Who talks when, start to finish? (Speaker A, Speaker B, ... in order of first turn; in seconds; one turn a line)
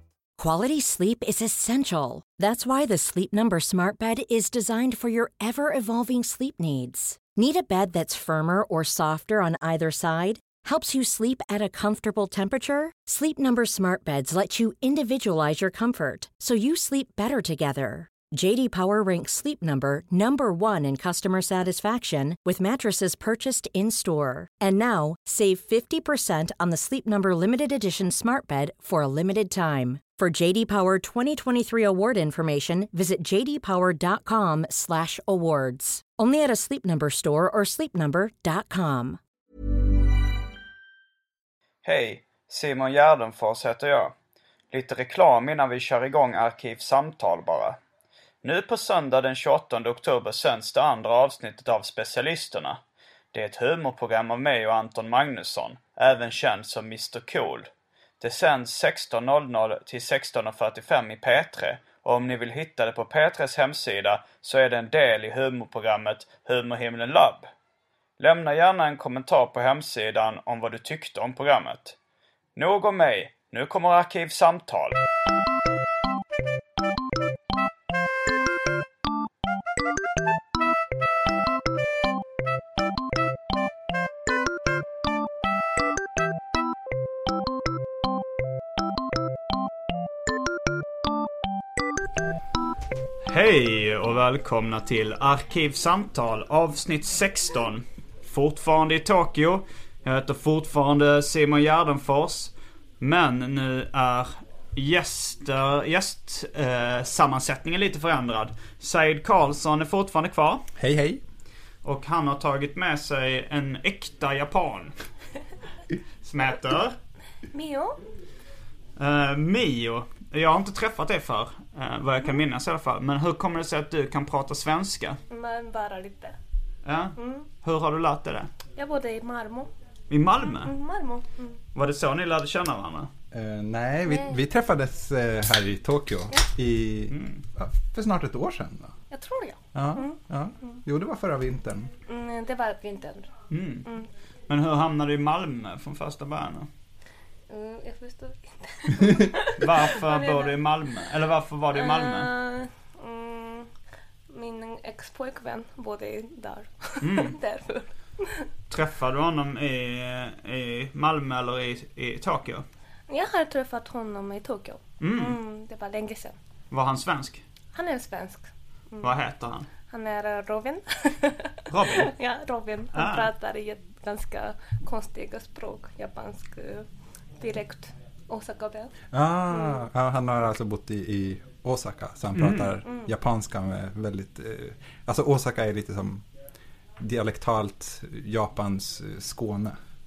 Speaker A: 0.4-39.2
Speaker B: 41.8-44.1
Speaker B: 44.7-47.8
Speaker B: 48.4-52.8
Speaker B: 53.3-57.7
Speaker B: 58.2-67.5
Speaker B: 68.2-72.0
Speaker B: 72.6-75.0
Speaker B: 93.3-110.6
Speaker C: 110.8-111.2
Speaker B: 111.8-114.9
Speaker B: 116.2-117.0
Speaker D: 117.5-118.0
Speaker B: 119.0-125.2
Speaker D: 125.3-126.4
Speaker B: 126.8-128.5
Speaker D: 127.2-127.5
Speaker D: 128.8-129.7
Speaker B: 130.1-130.7
Speaker D: 130.4-131.6
Speaker B: 131.8-133.1
Speaker C: 133.3-138.9
Speaker D: 134.1-134.4
Speaker B: 137.1-137.4
Speaker D: 139.1-140.8
Speaker C: 139.8-141.9
Speaker D: 142.1-143.3
Speaker B: 143.5-143.9
Speaker B: 144.5-146.7
Speaker D: 147.5-150.5
Speaker B: 149.6-152.3
Speaker D: 151.7-153.7
Speaker D: 154.3-158.5
Speaker B: 157.0-157.4
Speaker B: 158.7-162.7
Speaker D: 163.1-166.3
Speaker B: 165.0-165.4
Speaker B: 166.7-167.4
Speaker D: 167.7-169.2
Speaker B: 169.0-169.7
Speaker D: 169.9-176.9
Speaker B: 171.7-172.1
Speaker B: 172.9-173.3
Speaker D: 177.4-178.9
Speaker C: 179.1-186.2
Speaker D: 179.6-179.8
Speaker B: 182.3-182.8
Speaker D: 182.8-183.1
Speaker C: 187.0-189.8